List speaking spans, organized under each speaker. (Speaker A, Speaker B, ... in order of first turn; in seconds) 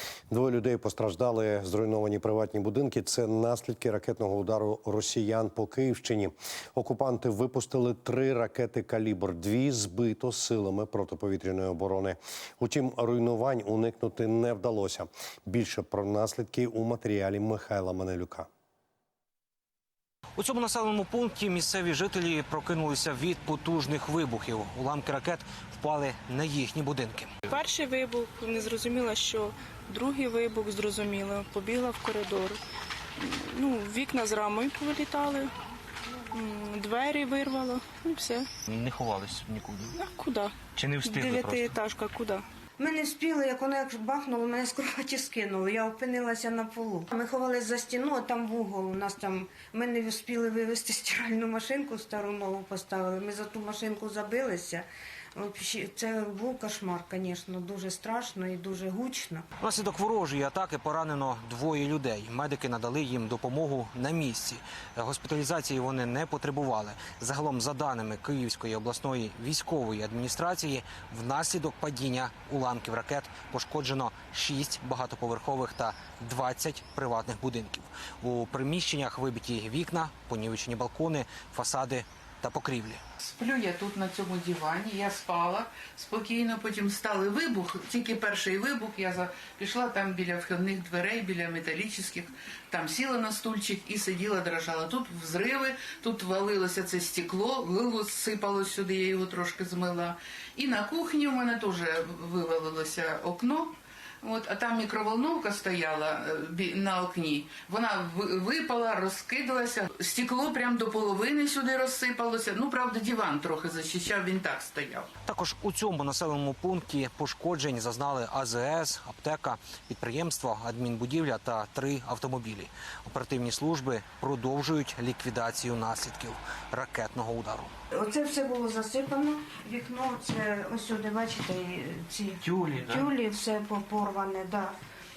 Speaker A: 0.3-18.5
Speaker B: 20.4-27.3, 38.7-40.0, 40.7-41.8, 59.6-83.0, 115.3-127.7, 132.4-133.1
Speaker C: 27.5-32.6, 33.2-35.5, 36.3-38.5, 39.9-42.4
Speaker D: 42.8-59.5, 127.9-134.8
Speaker E: 83.2-115.1